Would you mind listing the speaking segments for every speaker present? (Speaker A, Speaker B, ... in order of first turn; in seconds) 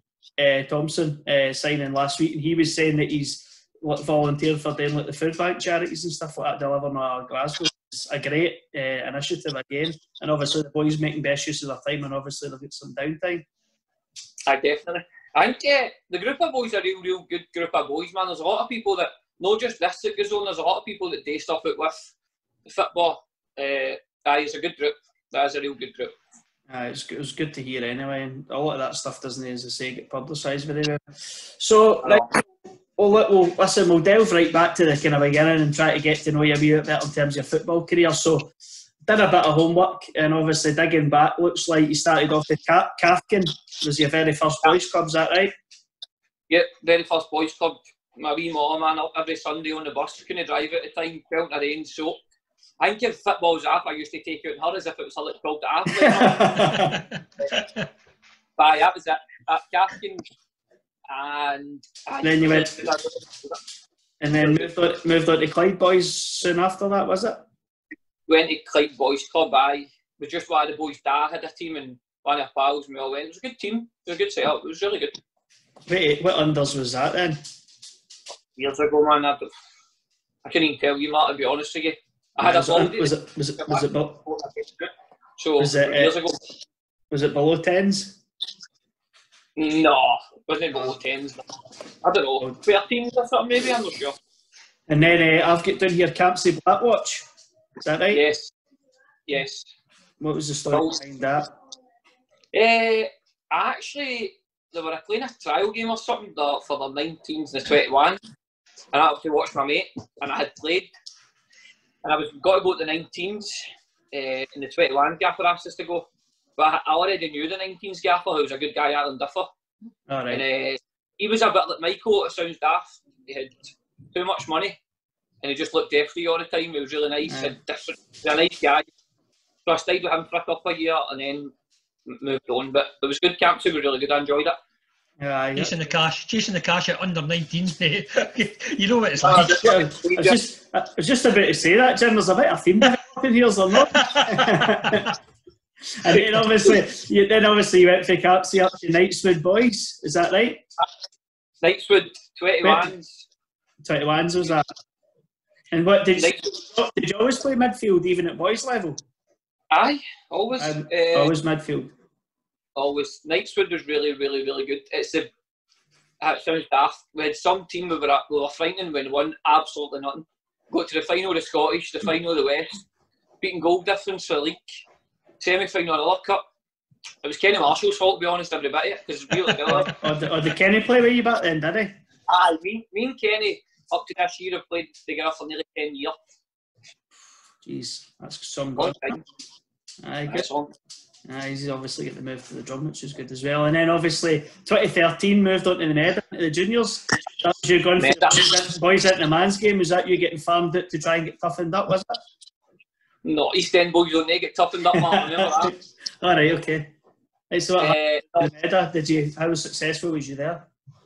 Speaker A: 0.4-13.4, 26.7-31.0, 31.6-32.3, 33.0-38.5, 39.0-45.5, 55.9-57.0, 62.2-62.9, 64.2-67.5, 75.9-77.4, 82.4-84.2, 85.6-86.2, 87.1-88.2, 94.9-97.2, 97.8-98.2, 100.2-101.5, 120.1-120.4, 127.3-127.5, 135.2-135.7, 139.3-145.1, 146.0-150.6, 152.6-152.9, 153.8-154.7, 155.7-159.0, 160.6-161.9, 179.7-182.0, 187.6-189.2, 190.0-190.5, 191.2-202.2, 204.9-206.9, 207.5-210.7
Speaker B: 14.5-22.1, 22.6-26.1, 32.0-32.3, 46.5-52.2, 52.8-56.9, 58.6-60.2, 61.1-63.6, 64.4-64.7, 68.3-75.2, 78.5-79.5, 80.4-86.4, 89.6-91.4, 92.0-94.2, 98.1-98.5, 99.3-99.7, 100.7-101.0, 102.5-108.2, 108.9-110.9, 112.0-119.5, 120.3-124.8, 125.4-128.9, 129.7-131.5, 132.1-134.6, 139.2-140.4, 151.6-153.2, 156.2-156.5, 159.7-161.3, 162.8-165.3, 166.2-172.8, 173.4-174.8, 175.4-176.4, 177.2-179.9, 182.3-186.2, 188.8-189.2, 190.2-190.7, 198.0-198.5, 203.2-205.7, 207.8-208.5
Speaker C: 135.6-139.6, 143.8-145.1